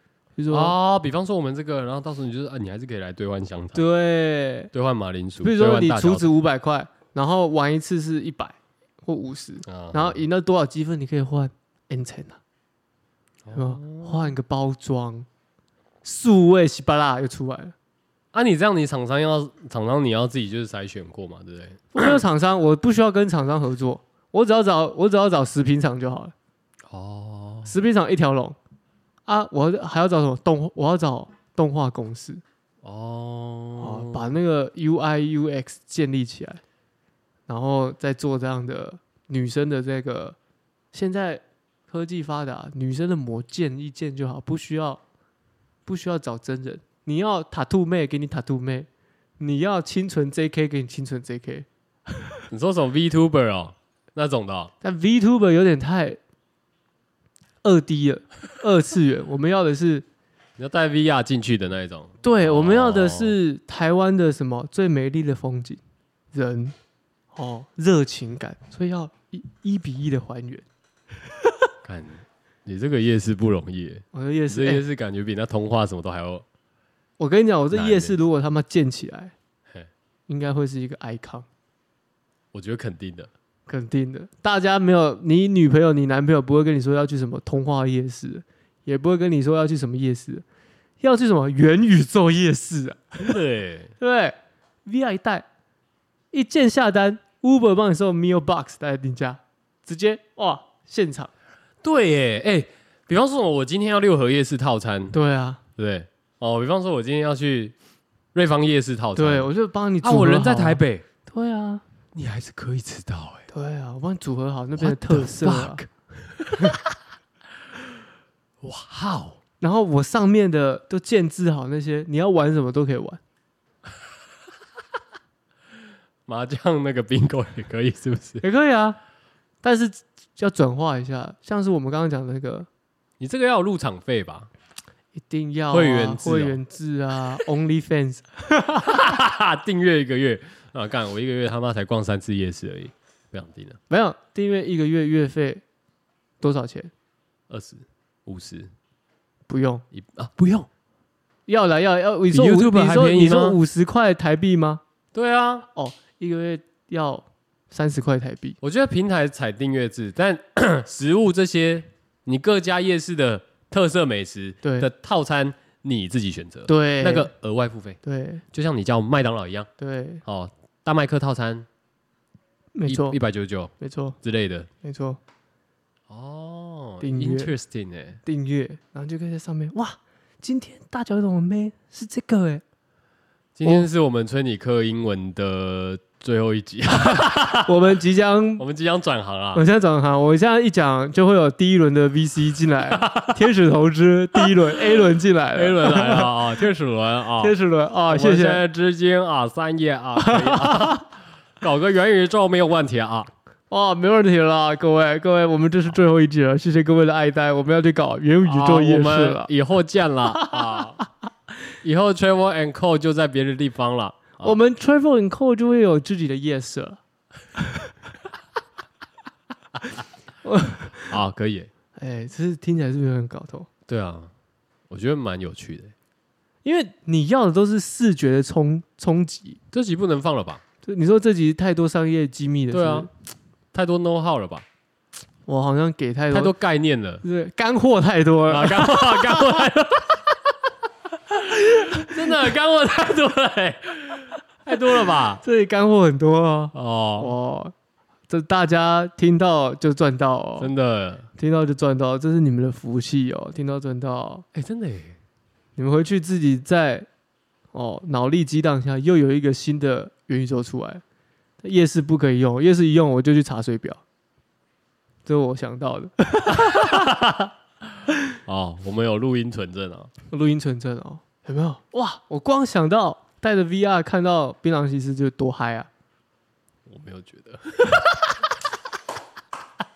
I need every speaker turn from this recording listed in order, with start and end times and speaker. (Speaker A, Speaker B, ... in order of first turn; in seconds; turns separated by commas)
Speaker A: 0.3-0.7, Speaker B: 0.5-3.8, Speaker A: 3.7-4.7, Speaker B: 4.7-6.3, Speaker A: 5.4-12.4, Speaker B: 9.7-10.2, Speaker B: 13.4-14.3, Speaker A: 13.5-15.3, Speaker A: 16.0-17.7, Speaker B: 18.3-22.1, Speaker A: 21.9-26.3, Speaker B: 26.9-27.7, Speaker A: 27.6-28.6, Speaker A: 29.2-32.4, Speaker B: 32.8-34.3, Speaker A: 33.8-36.6, Speaker A: 37.5-40.4, Speaker A: 40.9-45.0, Speaker A: 45.9-48.9, Speaker A: 49.4-51.6, Speaker B: 52.5-54.7, Speaker A: 54.8-56.2, Speaker A: 57.6-60.0, Speaker B: 60.6-63.4, Speaker A: 62.2-65.8, Speaker A: 66.3-66.7, Speaker A: 67.3-70.6, Speaker B: 71.8-76.4, Speaker A: 74.1-74.8, Speaker A: 77.2-79.3, Speaker B: 77.7-78.2, Speaker A: 80.3-81.5, Speaker B: 82.5-83.3, Speaker A: 83.7-90.4, Speaker A: 91.0-93.4, Speaker B: 93.2-93.9, Speaker A: 94.0-95.5, Speaker A: 96.3-101.3, Speaker B: 101.8-105.2, Speaker A: 105.1-105.6, Speaker B: 105.8-107.7, Speaker B: 108.3-111.0, Speaker A: 109.2-111.8, Speaker B: 112.1-113.5, Speaker A: 113.5-115.8, Speaker B: 114.8-116.9, Speaker B: 118.6-119.4, Speaker A: 119.6-123.2, Speaker B: 126.3-128.4, Speaker A: 128.4-129.0, Speaker A: 129.6-132.7, Speaker B: 133.2-134.5, Speaker A: 135.2-139.0, Speaker B: 135.7-136.6, Speaker B: 138.8-143.8, Speaker A: 143.9-145.6, Speaker A: 146.4-146.9, Speaker B: 147.5-148.7, Speaker A: 149.5-149.8, Speaker B: 149.9-150.7, Speaker A: 151.5-154.8, Speaker B: 152.3-153.6, Speaker B: 155.1-155.7, Speaker A: 155.7-158.6, Speaker B: 158.6-168.0, Speaker A: 164.6-164.9, Speaker A: 166.7-167.3, Speaker A: 168.0-168.4, Speaker B: 168.5-169.7, Speaker A: 169.8-170.2, Speaker B: 170.2-171.7, Speaker A: 172.7-173.2, Speaker B: 172.9-174.7, Speaker A: 173.8-174.2, Speaker A: 174.8-175.2, Speaker B: 176.1-178.2, Speaker A: 177.0-177.5, Speaker A: 178.2-182.6, Speaker B: 183.6-187.7, Speaker A: 187.0-188.6, Speaker B: 188.6-189.6, Speaker A: 189.5-196.5, Speaker B: 192.9-193.5, Speaker B: 194.4-195.0, Speaker B: 195.5-197.5, Speaker A: 197.4-198.6, Speaker B: 198.1-201.1, Speaker A: 200.2-201.0, Speaker B: 201.6-203.3, Speaker A: 203.7-209.5, Speaker B: 208.4-211.0, Speaker A: 210.4-211.0, Speaker B: 211.8-214.6, Speaker A: 214.4-217.0, Speaker A: 217.6-217.9, Speaker A: 220.4-221.1, Speaker B: 221.1-221.7, Speaker A: 221.9-223.7, Speaker B: 223.9-224.3, Speaker B: 224.9-225.9, Speaker A: 226.6-229.6, Speaker B: 229.7-230.6, Speaker A: 230.8-233.1, Speaker B: 232.7-233.1, Speaker B: 233.7-234.6, Speaker A: 235.5-236.5, Speaker B: 236.3-237.2, Speaker A: 237.2-239.7, Speaker B: 238.5-240.2, Speaker B: 241.4-245.4, Speaker A: 241.7-242.1, Speaker A: 245.4-247.7, Speaker B: 246.7-247.3, Speaker A: 248.3-250.7, Speaker B: 250.6-251.3, Speaker A: 251.4-254.4, Speaker B: 254.5-255.2, Speaker A: 255.8-257.1, Speaker A: 257.7-261.0, Speaker A: 261.6-264.0, Speaker A: 265.2-267.1, Speaker B: 266.5-267.5, Speaker B: 268.4-270.1, Speaker A: 270.3-275.9, Speaker B: 276.9-278.2